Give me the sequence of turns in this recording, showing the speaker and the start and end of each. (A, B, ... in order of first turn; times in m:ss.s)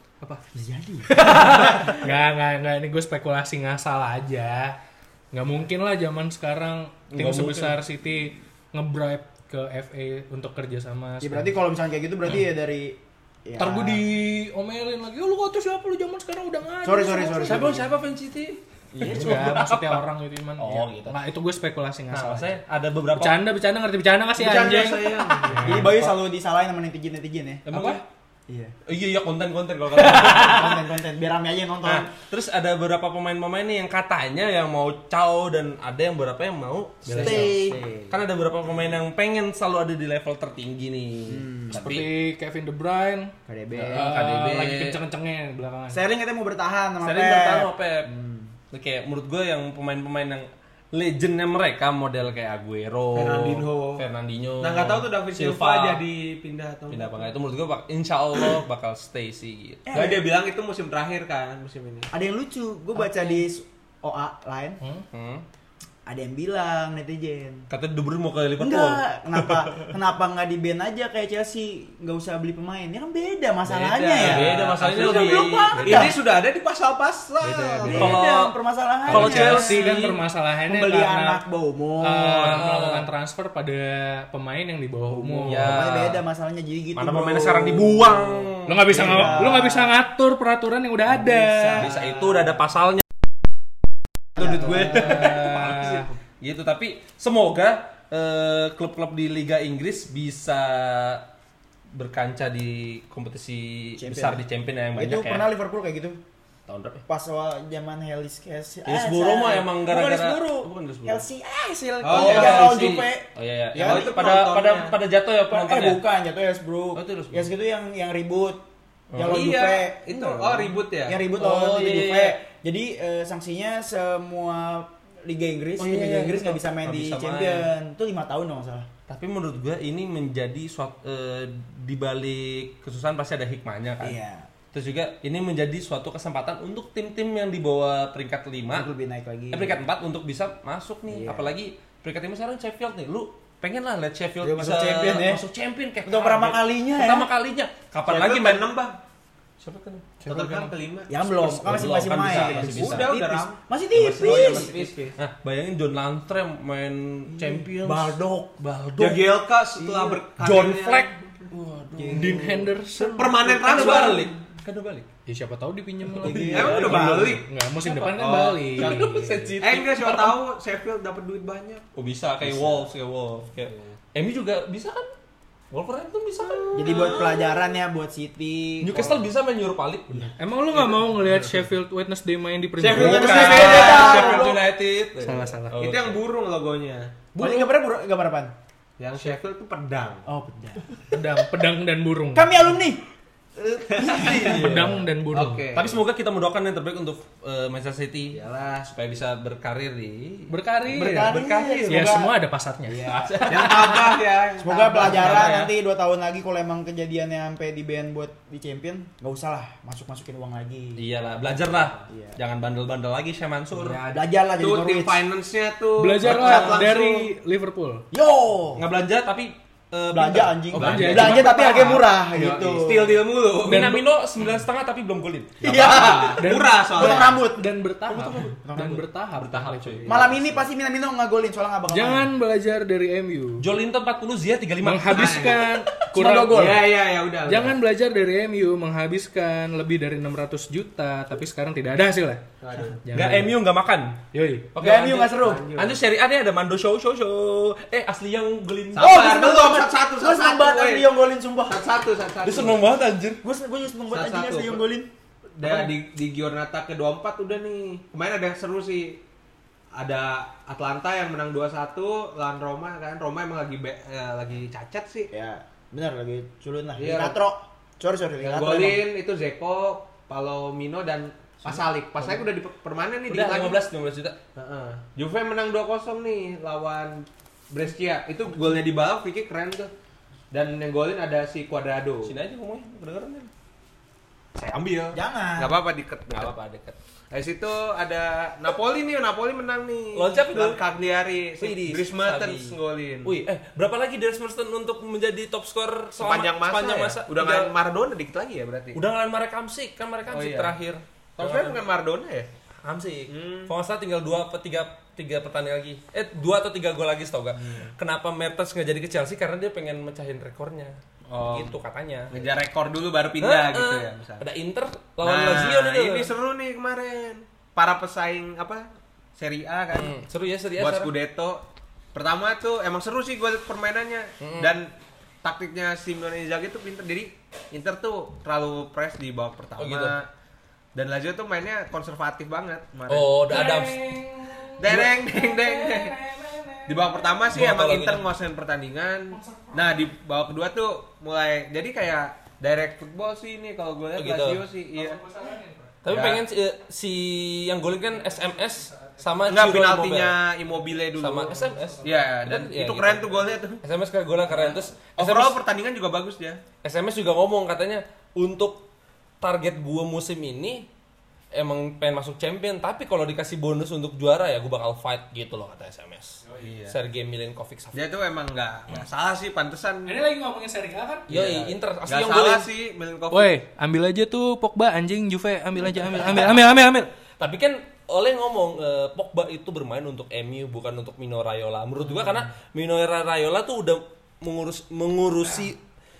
0:00.5-0:02.0 A
0:01.0-0:04.8 B
0:05.3-0:11.6 B
0:07.1-0:07.8 C
0:11.2-0:14.0 A
0:13.6-0:17.8 B
0:16.8-0:17.8 A
0:17.4-0:20.0 C
0:18.9-0:19.5 A
0:19.0-0:22.6 B
0:20.6-0:21.2 C
0:22.1-0:23.5 C
0:23.1-0:26.0 B
0:24.4-0:25.8 D
0:25.5-0:26.1 C
0:25.6-0:27.7 A
0:27.6-0:28.0 C
0:27.7-0:28.0 B
0:28.5-0:28.7 A
0:28.8-0:30.8 C
0:30.0-0:30.6 B
0:30.0-0:32.1 A
0:31.8-0:42.1 C
0:37.0-0:37.6 B
0:37.2-0:38.1 A
0:41.3-0:41.9 A
0:41.7-0:43.3 B
0:43.4-0:44.2 A
0:43.7-0:45.0 C
0:43.9-0:46.0 B
0:45.9-0:48.5 A
0:47.0-0:48.1 C
0:48.7-0:56.0 C
0:53.1-0:54.0 D
0:54.6-0:57.3 D
0:56.9-0:59.9 C
0:59.9-1:00.3 A
0:59.9-1:02.1 D
1:02.1-1:04.8 A
1:03.0-1:03.4 B
1:04.8-1:05.0 B
1:05.1-1:05.4 C
1:06.0-1:07.7 A
1:07.7-1:09.9 C
1:08.6-1:16.2 A
1:13.6-1:18.2 D
1:14.2-1:16.1 C
1:17.4-1:18.2 B
1:17.8-1:20.0 A
1:17.8-1:18.5 C
1:19.1-1:20.2 C
1:19.1-1:21.4 B
1:20.7-1:22.6 A
1:22.0-1:25.8 B
1:22.4-1:23.1 C
1:25.1-1:29.9 A
1:25.4-1:26.2 C
1:27.0-1:29.5 C
1:28.7-1:31.9 B
1:31.1-1:32.6 A
1:31.8-1:33.0 C
1:34.4-1:35.4 A
1:34.4-1:41.3 C
1:34.4-1:36.1 B
1:41.9-1:45.5 C
1:44.0-1:44.4 A
1:44.9-1:46.2 A
1:46.7-1:47.0 C
1:47.1-1:54.1 A
1:48.8-1:51.2 C
1:52.0-1:53.1 D
1:52.1-1:56.0 C
1:53.7-1:55.0 D
1:55.5-1:58.6 A
1:56.9-1:57.5 C
1:59.1-1:59.4 C
1:59.1-2:08.9 A
1:59.2-2:01.2 D
2:01.3-2:02.4 C
2:05.8-2:07.7 C
2:09.1-2:14.2 C
2:14.0-2:14.5 A
2:14.7-2:18.9 C
2:18.7-2:19.8 A
2:19.5-2:28.7 C
2:21.1-2:21.5 A
2:24.4-2:25.4 A
2:26.0-2:27.3 A
2:28.1-2:29.0 D
2:29.6-2:30.1 C
2:30.2-2:30.7 B
2:30.2-2:31.2 D
2:31.1-2:34.7 A
2:31.4-2:33.2 C
2:32.2-2:33.6 D
2:33.9-2:39.3 C
2:34.2-2:35.2 D
2:37.3-2:38.2 A
2:39.0-2:41.1 D
2:39.8-2:40.2 A
2:40.4-2:45.1 C
2:42.0-2:42.6 A
2:42.1-2:44.1 B
2:43.1-2:44.3 D
2:43.8-2:44.2 A
2:45.2-2:49.5 B
2:46.2-2:47.4 A
2:46.2-2:47.2 C
2:46.5-2:51.8 D
2:48.8-2:50.4 C
2:51.9-2:55.1 C
2:52.4-2:52.8 D
2:53.7-2:53.9 D
2:55.7-2:57.4 C
2:56.7-2:59.3 A
2:56.8-2:57.4 D
2:58.8-3:00.3 C
3:00.4-3:04.0 B
3:02.8-3:04.6 D
3:02.9-3:06.2 C
3:02.9-3:04.6 A
3:05.2-3:05.8 B
3:05.7-3:07.2 D
3:07.3-3:08.5 A
3:07.4-3:07.7 B
3:09.0-3:10.2 D
3:10.2-3:11.0 A
3:11.1-3:12.6 B
3:12.3-3:13.0 A
3:13.6-3:14.9 A
3:14.0-3:14.7 D
3:14.0-3:15.0 C
3:14.4-3:15.6 B
3:15.3-3:16.0 D
3:15.7-3:22.2 C
3:18.3-3:18.9 D
3:20.5-3:23.4 B
3:20.9-3:22.3 A
3:21.1-3:21.7 D
3:22.8-3:23.8 A
3:23.0-3:24.2 C
3:23.4-3:25.7 D
3:24.6-3:31.0 A
3:25.0-3:25.7 C
3:31.0-3:34.2 C
3:32.1-3:32.4 A
3:34.0-3:35.2 A
3:34.6-3:37.3 D
3:36.0-3:38.1 B
3:36.2-3:36.8 C
3:38.1-3:38.8 A
3:38.8-3:41.8 C
3:40.1-3:43.2 A
3:40.7-3:42.1 B
3:40.8-3:43.9 D
3:43.6-3:46.2 C
3:43.7-3:44.0 B
3:45.6-3:47.4 D
3:45.6-3:47.7 A
3:46.2-3:50.1 B
3:48.1-3:48.5 C
3:48.6-3:49.0 A
3:49.4-3:50.6 C
3:50.0-3:52.3 A
3:51.9-3:53.6 B
3:53.6-3:55.6 C
3:54.8-3:56.7 B
3:55.1-3:55.7 D
3:56.1-3:56.9 A
3:56.3-3:57.8 D
3:57.4-4:02.4 B
4:02.6-4:03.0 D
4:03.0-4:03.6 B
4:03.1-4:04.2 C
4:04.3-4:04.7 B
4:04.7-4:09.4 C
4:04.8-4:05.9 A
4:05.4-4:06.0 D
4:08.9-4:11.1 D
4:09.0-4:11.8 A
4:11.6-4:12.9 D
4:12.4-4:13.4 C
4:13.4-4:15.1 A
4:14.1-4:14.8 D
4:15.6-4:19.2 D
4:20.0-4:25.3 D
4:25.3-4:29.0 A
4:27.0-4:27.4 D
4:28.4-4:33.8 D
4:33.3-4:34.4 C
4:34.6-4:39.9 D
4:40.5-4:42.3 D
4:42.2-4:43.5 C
4:44.6-4:46.5 D
4:45.1-4:45.8 A
4:46.3-4:47.0 C
4:47.3-4:53.4 D
4:50.1-4:50.8 C
4:51.6-4:57.7 C
4:56.2-4:59.0 D
4:58.9-5:01.8 C
5:00.3-5:00.8 D
5:01.4-5:02.5 D
5:02.8-5:12.4 C
5:03.3-5:03.7 D
5:07.6-5:07.9 D
5:11.3-5:11.7 B
5:12.3-5:14.4 D
5:13.4-5:16.3 C
5:15.2-5:20.1 D
5:19.9-5:21.1 C
5:20.8-5:21.6 D
5:22.1-5:24.9 D
5:24.4-5:24.7 C
5:25.4-5:30.3 D
5:29.8-5:30.2 C
5:30.9-5:33.3 D
5:33.1-5:34.1 C
5:33.5-5:37.5 B
5:34.8-5:36.1 D
5:34.8-5:35.1 C
5:36.9-5:45.2 D
5:37.5-5:38.3 C
5:39.3-5:40.0 B
5:44.2-5:44.6 C
5:44.9-5:46.0 B
5:46.0-5:50.4 C
5:46.1-5:46.4 D
5:48.1-5:49.4 B
5:49.5-5:53.8 D
5:51.1-5:55.6 C
5:51.5-5:52.1 B
5:54.5-5:56.6 D
5:56.8-5:58.9 C
5:59.4-6:00.9 C
6:01.5-6:08.0 C
6:06.6-6:07.0 D
6:07.9-6:10.1 D
6:10.0-6:11.3 B
6:11.3-6:12.7 C
6:11.3-6:13.5 D
6:13.3-6:17.1 B
6:17.4-6:25.8 C